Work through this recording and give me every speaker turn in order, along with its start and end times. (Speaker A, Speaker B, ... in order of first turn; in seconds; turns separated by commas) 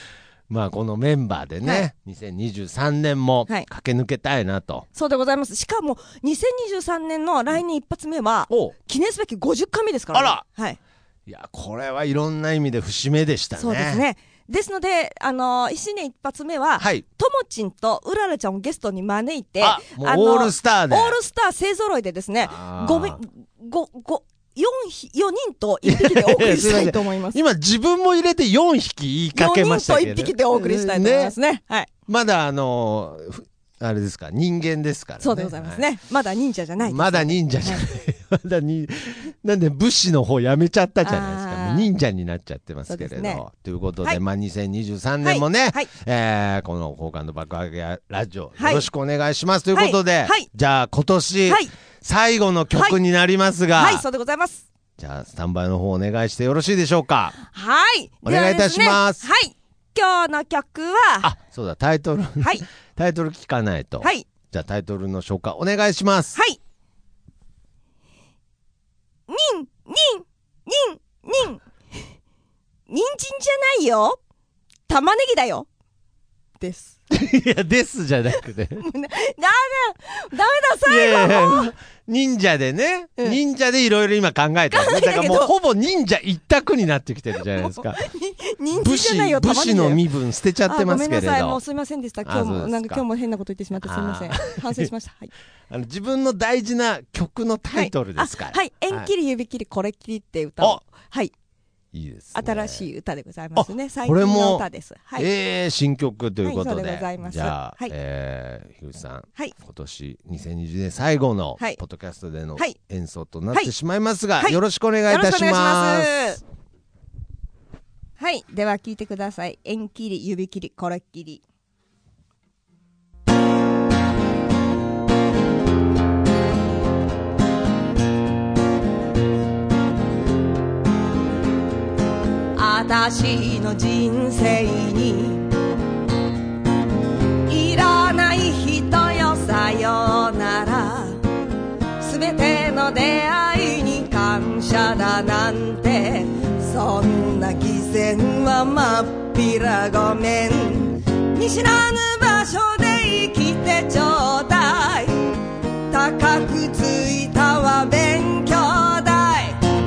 Speaker A: 0.5-4.9, Speaker B: 1.6-1.9, Speaker B: 4.9-10.8, Speaker A: 10.1-10.4, Speaker A: 11.3-14.0, Speaker B: 13.6-27.4, Speaker A: 16.8-17.0, Speaker A: 19.6-21.2, Speaker A: 22.4-23.2, Speaker A: 25.8-31.4, Speaker B: 29.3-31.9, Speaker A: 32.1-35.8, Speaker B: 35.2-37.9, Speaker A: 36.8-54.0, Speaker B: 41.0-41.9, Speaker B: 42.9-43.4, Speaker B: 45.2-45.9, Speaker B: 48.6-48.9, Speaker B: 49.7-50.5, Speaker B: 53.7-54.6, Speaker A: 55.0-57.4, Speaker B: 57.4-61.3, Speaker A: 58.2-59.2, Speaker A: 61.2-66.4, Speaker B: 64.0-64.3, Speaker B: 69.3-71.6, Speaker B: 72.9-74.2, Speaker B: 74.9-75.7, Speaker B: 76.6-77.0, Speaker A: 77.1-78.9, Speaker B: 78.8-81.7, Speaker A: 80.8-88.0, Speaker B: 84.7-85.5, Speaker B: 87.5-90.1, Speaker A: 88.7-91.6, Speaker B: 90.7-95.3, Speaker A: 92.2-93.0, Speaker A: 93.8-94.9, Speaker A: 95.7-99.1, Speaker B: 97.7-101.3, Speaker A: 101.9-102.9, Speaker B: 102.3-105.3, Speaker A: 103.6-104.7, Speaker A: 105.2-116.1, Speaker B: 106.4-107.9, Speaker B: 114.4-116.4, Speaker B: 118.2-121.4, Speaker B: 132.6-135.5, Speaker B: 137.4-141.2, Speaker B: 142.0-155.3, Speaker B: 155.9-159.6